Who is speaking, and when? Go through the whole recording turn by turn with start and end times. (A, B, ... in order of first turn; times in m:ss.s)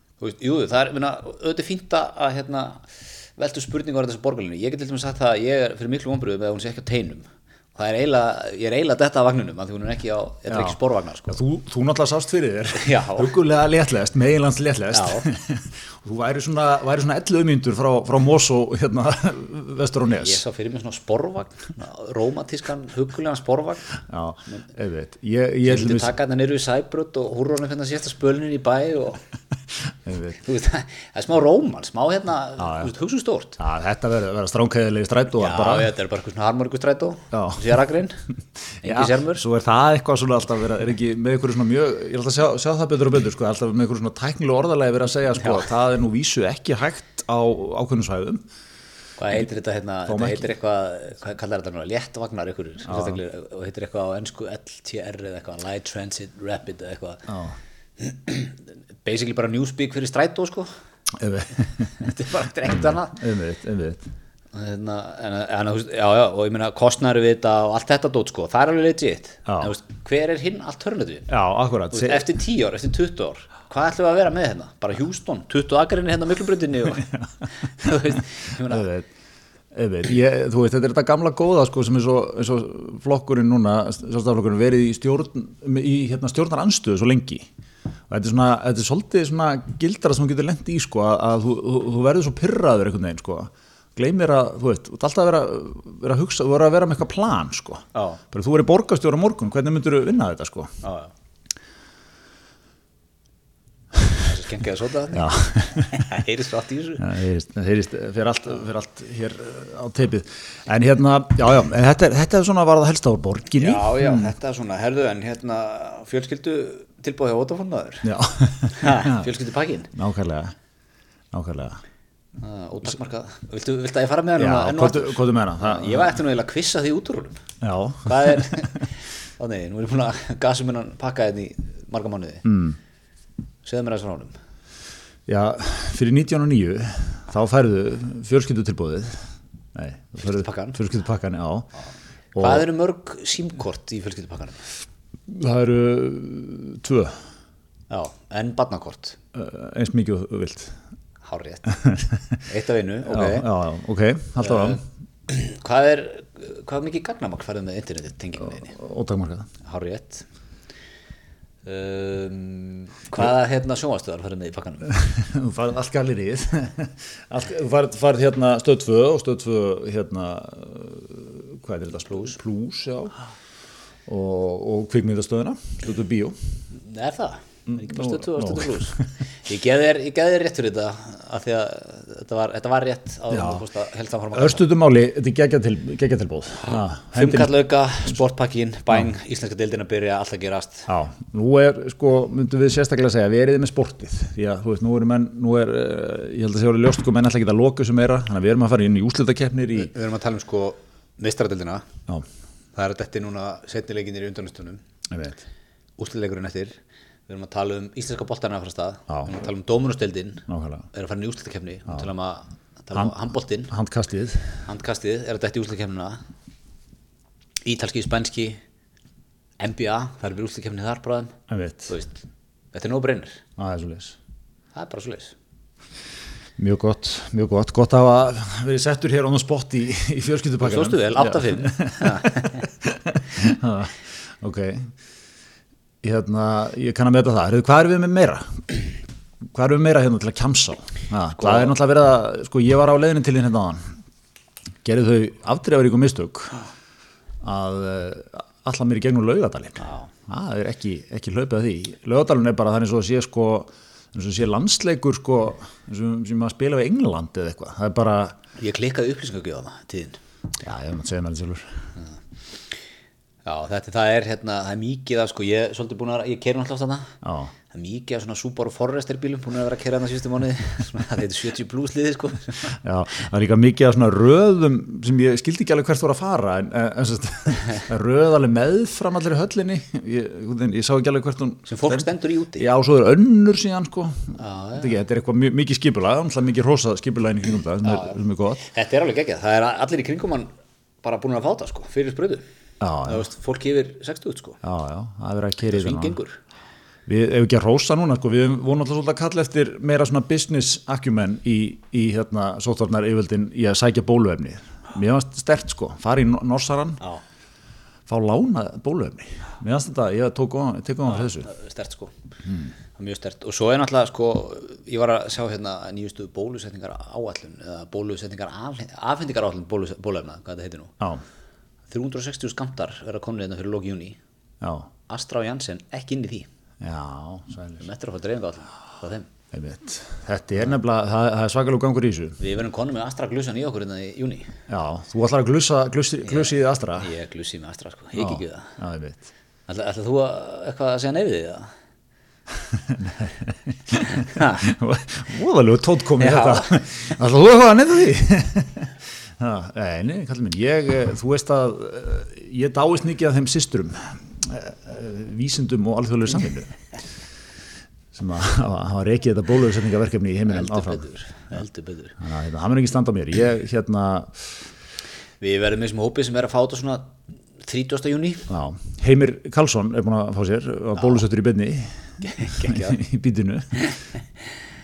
0:00.2-0:11.4 A
0:10.5-0:20.4 B
0:12.8-0:13.3 A
0:14.9-0:15.3 A
0:20.2-0:24.7 A
0:24.1-0:26.1 B
0:25.6-0:29.2 A
0:29.9-0:30.4 B
0:30.4-0:33.6 A
0:32.6-0:32.9 B
0:33.6-0:35.9 B
0:35.4-0:38.2 A
0:37.3-0:37.8 B
0:38.8-0:39.4 A
0:38.8-0:48.4 B
0:45.4-0:45.7 A
0:49.2-0:57.3 A
0:50.1-0:50.4 B
0:52.9-0:53.2 B
0:57.3-0:57.6 B
0:58.0-1:00.7 A
1:01.2-1:04.1 B
1:02.0-1:03.2 A
1:04.5-1:11.3 A
1:09.5-1:09.7 B
1:11.3-1:12.3 B
1:11.9-1:18.9 A
1:17.0-1:17.3 B
1:18.6-1:19.1 B
1:19.7-1:27.5 B
1:28.1-1:40.8 B
1:38.0-1:38.2 A
1:40.8-1:41.1 A
1:44.2-1:47.1 A
1:45.1-1:46.1 B
1:47.0-1:54.3 B
1:53.6-1:58.1 A
1:58.0-1:59.3 B
1:58.7-1:59.9 A
1:59.9-2:00.5 B
2:01.3-2:01.8 B
2:02.4-2:07.4 A
2:04.4-2:06.2 B
2:07.6-2:08.7 B
2:08.1-2:12.4 A
2:12.4-2:12.8 B
2:13.6-2:14.4 A
2:15.3-2:21.7 B
2:20.2-2:20.8 A
2:21.9-2:24.7 A
2:22.4-2:22.7 B
2:25.3-2:27.2 B
2:27.9-2:29.2 A
2:29.3-2:30.8 B
2:31.2-2:31.8 A
2:31.7-2:32.4 B
2:32.5-2:33.5 A
2:33.0-2:34.8 B
2:34.4-2:38.7 A
2:38.6-2:39.5 B
2:39.6-2:40.3 A
2:41.6-2:44.9 A
2:44.9-2:53.2 B
2:52.1-2:52.4 A
2:54.1-2:56.4 B
2:56.7-3:04.7 A
2:57.7-2:59.1 B
3:03.3-3:03.6 B
3:04.3-3:07.5 B
3:06.6-3:10.9 A
3:10.9-3:19.9 B
3:19.7-3:21.9 A
3:22.8-3:24.8 A
3:25.1-3:25.4 B
3:26.0-3:33.7 A
3:29.1-3:29.4 B
3:30.5-3:30.9 B
3:33.7-3:34.6 B
3:34.6-3:36.2 A
3:37.6-3:38.6 A
3:39.6-3:41.4 A
3:41.5-3:41.9 B
3:41.9-3:42.2 A
3:42.7-3:43.4 A
3:43.6-3:44.2 B
3:44.8-3:45.3 A
3:46.6-3:54.9 B
3:50.6-3:52.7 A
3:56.0-3:58.9 B
3:59.5-4:03.9 B
4:01.4-4:01.7 A
4:04.8-4:06.6 B
4:07.4-4:18.4 B
4:09.8-4:10.1 A
4:18.6-4:20.2 A
4:20.6-4:21.8 B
4:23.4-4:27.2 A
4:27.2-4:27.5 B
4:27.7-4:32.8 A
4:32.8-4:48.6 B
4:41.7-4:42.7 A
4:44.4-4:45.0 A
4:47.8-4:50.5 A
4:51.0-4:52.4 A
4:52.8-4:53.3 B
4:53.0-4:54.6 A
4:54.6-4:56.2 B
4:55.6-4:56.4 A
4:57.1-5:07.0 B
5:08.1-5:11.5 B
5:11.1-5:12.1 A
5:12.4-5:12.7 B
5:13.0-5:21.0 A
5:21.9-5:24.2 A
5:24.6-5:24.9 B
5:25.1-5:26.5 A
5:26.8-5:27.9 B
5:27.8-5:29.3 A
5:29.5-5:32.4 B
5:32.4-5:34.5 A
5:34.7-5:37.1 B
5:36.3-5:38.7 A
5:38.2-5:39.3 B
5:39.7-5:41.7 A
5:42.7-5:56.8 B
5:44.1-5:44.7 A
5:46.2-5:47.2 A
5:58.1-6:01.1 B
6:00.5-6:02.2 A
6:02.2-6:04.6 B
6:05.4-6:07.1 A
6:07.6-6:08.5 A
6:08.5-6:13.8 B
6:11.0-6:11.2 A
6:12.2-6:13.0 A
6:13.8-6:14.4 A